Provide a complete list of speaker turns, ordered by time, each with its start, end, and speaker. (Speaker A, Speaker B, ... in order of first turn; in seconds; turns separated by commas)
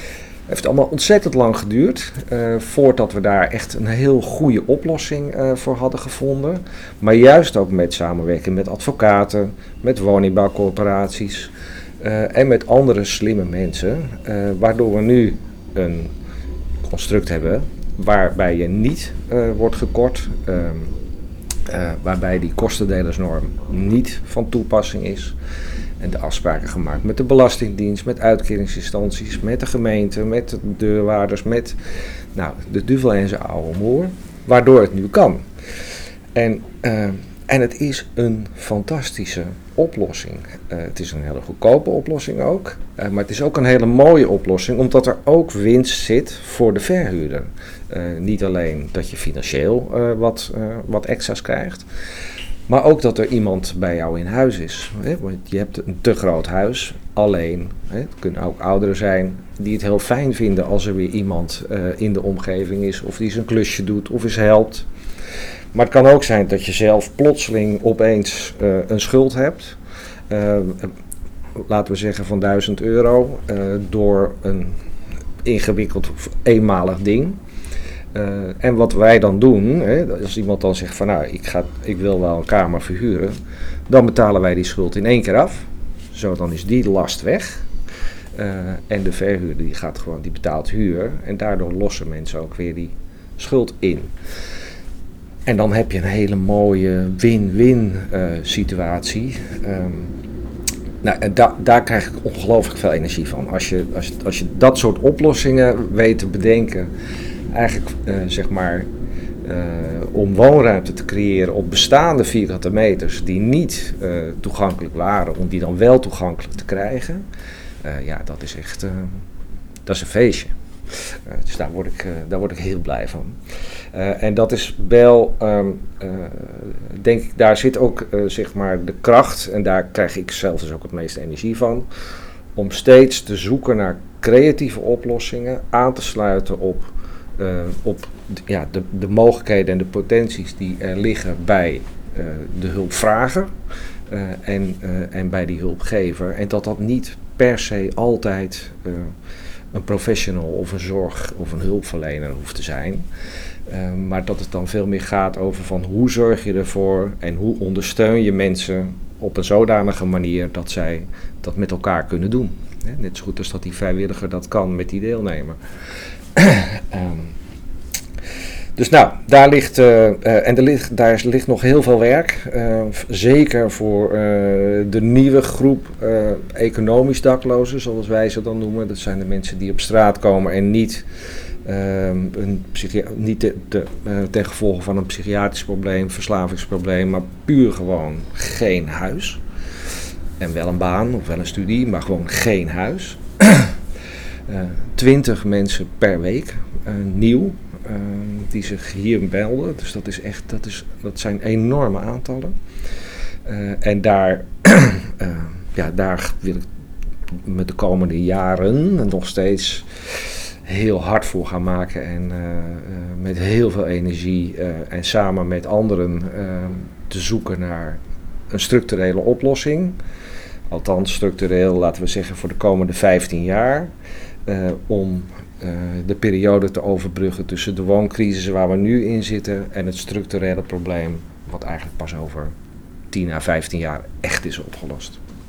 Speaker A: 0.5-16.1, Speaker A: 16.9-20.9, Speaker A: 21.7-25.4, Speaker A: 26.0-31.8, Speaker A: 32.4-35.4, Speaker A: 36.4-51.9, Speaker A: 52.7-64.9, Speaker A: 65.7-69.8, Speaker A: 70.3-70.9, Speaker A: 71.6-74.8, Speaker A: 75.4-77.4, Speaker A: 78.1-83.3, Speaker A: 83.9-87.7, Speaker A: 88.3-94.1, Speaker A: 95.5-100.1, Speaker A: 101.0-106.9, Speaker A: 107.5-108.9, Speaker A: 109.4-117.2, Speaker A: 117.8-119.2, Speaker A: 119.9-123.4, Speaker A: 123.9-131.9, Speaker A: 132.6-143.5, Speaker A: 144.1-149.1, Speaker A: 149.7-153.1, Speaker A: 153.7-165.6, Speaker A: 166.3-167.3, Speaker A: 168.8-181.1, Speaker A: 181.7-189.4, Speaker A: 190.4-193.8, Speaker A: 194.5-202.6, Speaker A: 203.5-206.7, Speaker A: 207.4-218.0, Speaker A: 218.5-220.0, Speaker A: 220.7-223.9, Speaker A: 224.5-232.5, Speaker A: 233.1-235.2